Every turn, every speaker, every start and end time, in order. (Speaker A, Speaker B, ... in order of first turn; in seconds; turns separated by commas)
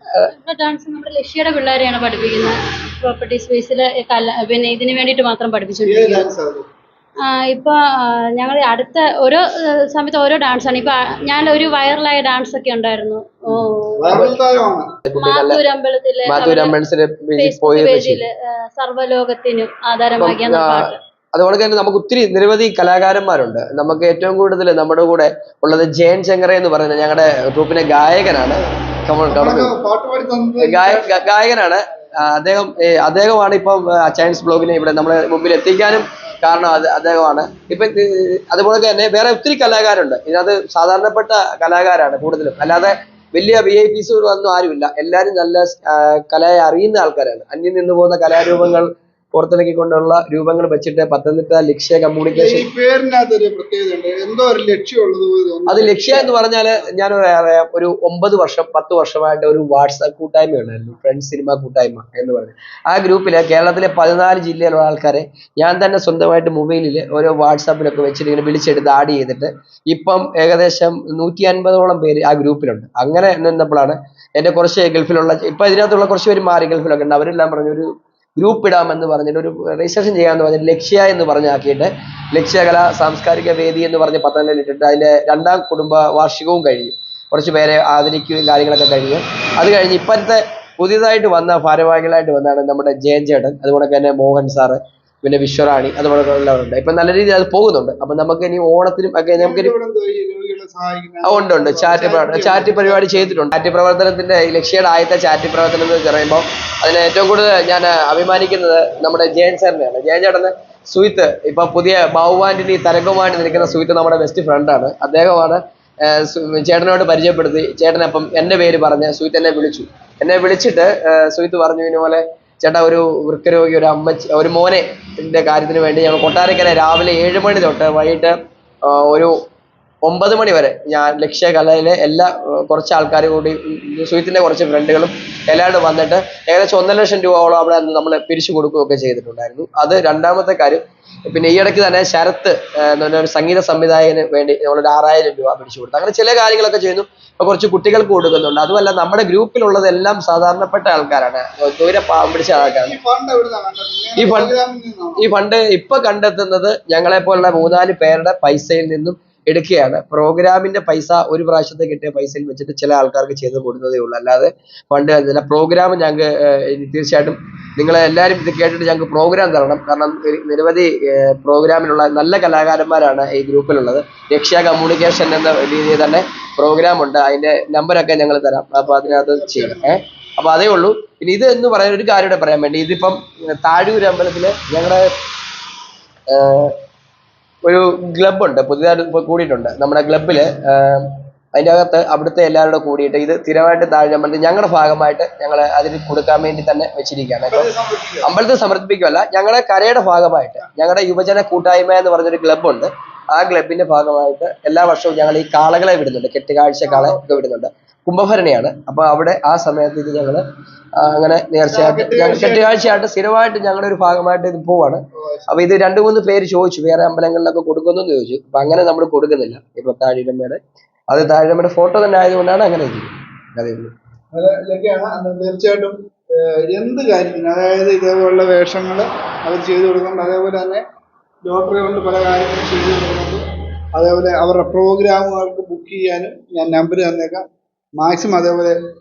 Speaker A: 0.3-6.3, Speaker B: 5.8-6.7, Speaker A: 7.2-14.3, Speaker B: 14.0-14.9, Speaker C: 15.1-15.6, Speaker A: 15.2-16.8, Speaker C: 16.3-18.2, Speaker A: 17.4-21.0, Speaker C: 20.2-29.7, Speaker B: 29.3-31.2, Speaker C: 30.6-52.7, Speaker B: 52.3-56.3, Speaker C: 55.7-99.7, Speaker B: 99.4-103.4, Speaker C: 101.2-129.3, Speaker B: 113.3-113.7, Speaker C: 130.1-152.9, Speaker B: 152.4-155.3, Speaker C: 154.2-154.5, Speaker C: 155.2-185.1, Speaker B: 178.8-180.0, Speaker C: 186.3-186.8, Speaker C: 187.7-197.7, Speaker B: 197.5-198.3, Speaker C: 198.2-210.4, Speaker B: 206.8-207.2, Speaker C: 211.0-223.9, Speaker B: 211.7-213.0, Speaker B: 215.2-215.5, Speaker B: 224.3-230.8, Speaker B: 231.5-233.4, Speaker B: 234.0-237.4, Speaker B: 238.0-238.8